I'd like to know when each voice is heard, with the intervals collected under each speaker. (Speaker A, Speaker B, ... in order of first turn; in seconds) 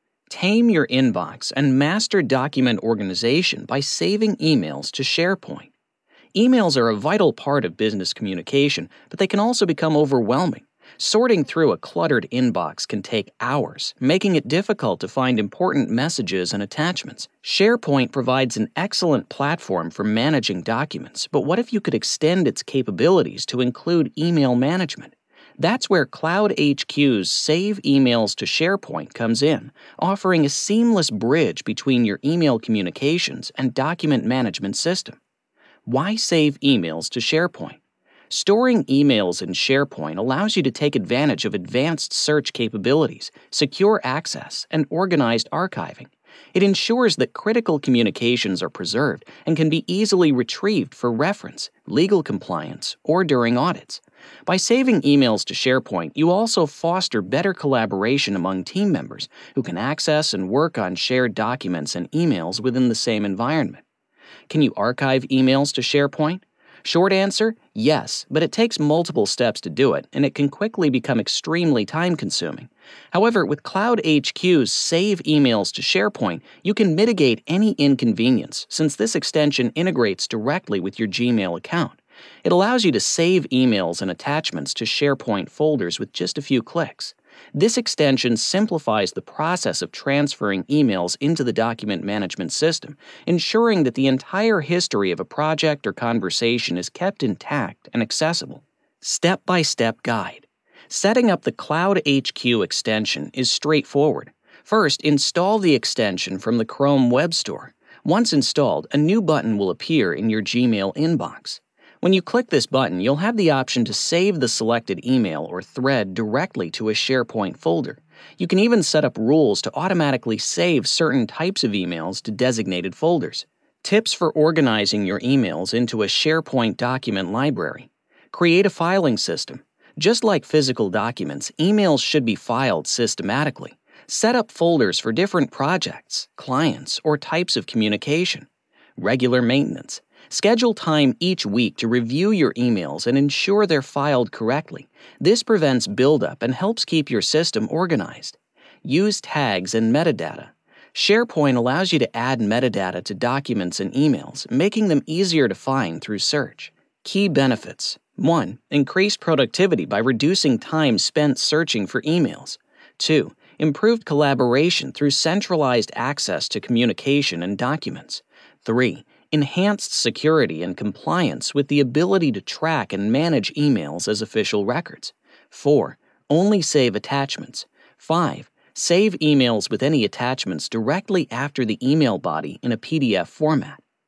Speaker A: 0.3-5.7, 6.3-35.2, 35.9-63.8, 64.5-183.8